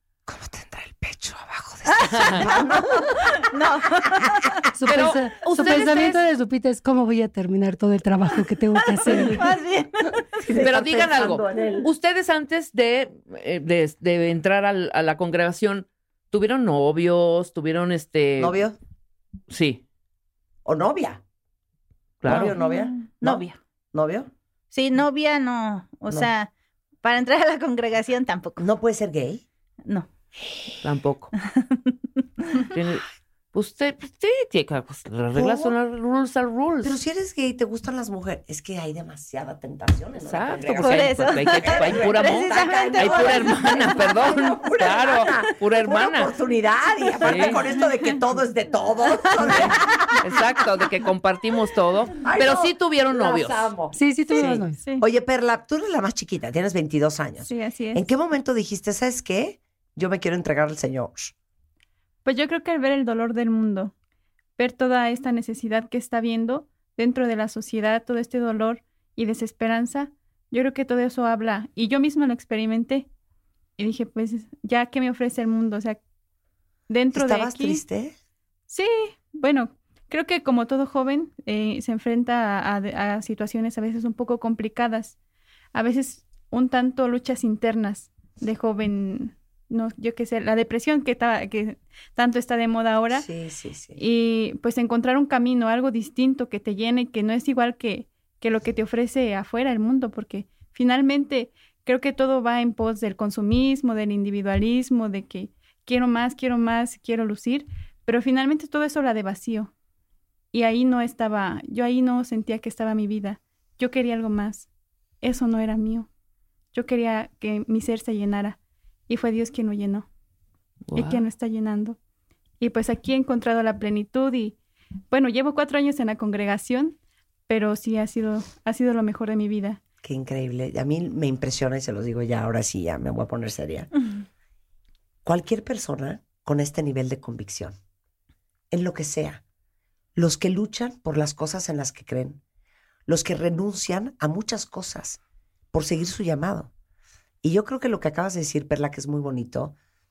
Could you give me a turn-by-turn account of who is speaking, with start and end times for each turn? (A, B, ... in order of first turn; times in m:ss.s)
0:00.3-0:03.1 A
0:02.0-0:02.5 B
0:03.0-0:04.6 B
0:04.8-0:09.4 C
0:04.8-0:06.2 D
0:08.8-0:10.2 B
0:10.3-0:11.9 A
0:10.6-0:18.6 D
0:18.4-0:18.7 A
0:19.5-0:19.8 D
0:20.6-0:21.2 A
0:22.2-0:22.5 D
0:22.2-0:24.3 A
0:22.3-0:23.6 B
0:24.7-0:26.5 B
0:27.0-0:28.6 B
0:28.6-0:29.4 A
0:30.8-0:31.3 D
0:31.4-0:31.8 B
0:32.7-0:36.9 D
0:35.3-0:35.7 A
0:36.8-0:50.2 A
0:40.2-0:46.3 D
0:40.8-0:43.4 B
0:47.2-0:47.6 D
0:49.4-0:53.7 D
0:52.2-1:01.3 A
0:53.9-0:54.8 C
0:57.4-0:58.0 E
1:02.2-1:03.9 E
1:04.6-1:13.1 E
1:13.8-1:16.0 E
1:16.9-1:17.8 E
1:17.1-1:18.1 A
1:18.7-1:25.2 E
1:25.7-1:33.2 E
1:33.1-1:34.0 A
1:34.0-1:49.7 E
1:50.5-1:54.7 E
1:55.2-1:56.1 E
1:56.7-2:00.1 E
2:00.9-2:01.2 D
2:00.9-2:02.0 E
2:02.6-2:04.6 E
2:05.1-2:07.0 E
2:07.5-2:09.8 E
2:10.0-2:13.9 A
2:15.2-2:17.7 A
2:18.7-2:19.4 A
2:20.2-2:22.4 A
2:23.1-2:25.2 A
2:25.7-2:26.7 A
2:27.4-2:29.7 A